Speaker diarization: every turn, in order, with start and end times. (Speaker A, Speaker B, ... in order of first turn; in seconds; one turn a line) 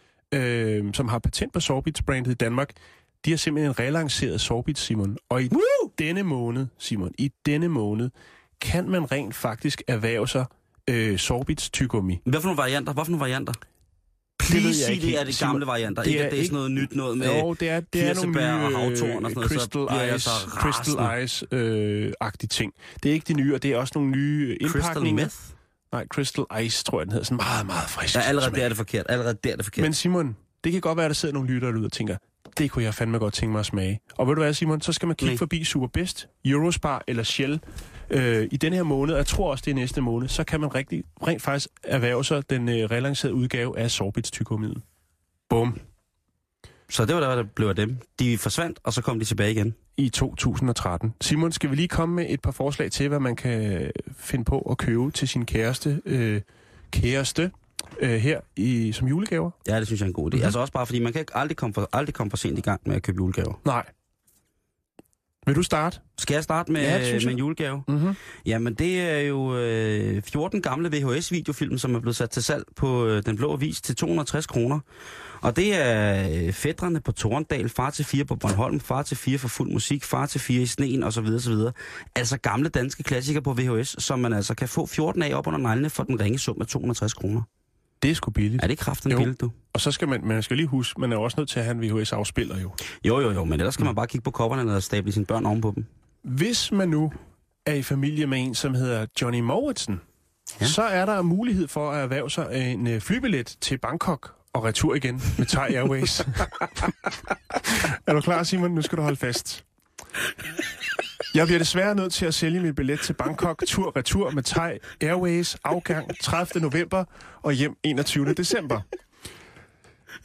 Speaker A: 0.3-12.2
Speaker B: 5.5-5.9
Speaker B: 12.2-13.6
Speaker B: 14.4-21.1
Speaker A: 14.4-25.3
Speaker B: 24.6-25.5
Speaker A: 25.9-28.7
Speaker B: 28.1-29.9
Speaker A: 29.8-44.8
Speaker A: 45.5-45.8
Speaker B: 46.9-49.8
Speaker A: 50.0-59.5
Speaker B: 59.7-63.6
Speaker A: 63.6-63.9
Speaker A: 65.5-66.0
Speaker B: 66.2-74.8
Speaker A: 66.8-68.2
Speaker B: 75.4-87.5
Speaker A: 88.0-92.8
Speaker B: 88.6-89.5
Speaker B: 93.0-95.9
Speaker A: 96.2-100.0
Speaker A: 100.6-109.6
Speaker A: 111.3-118.8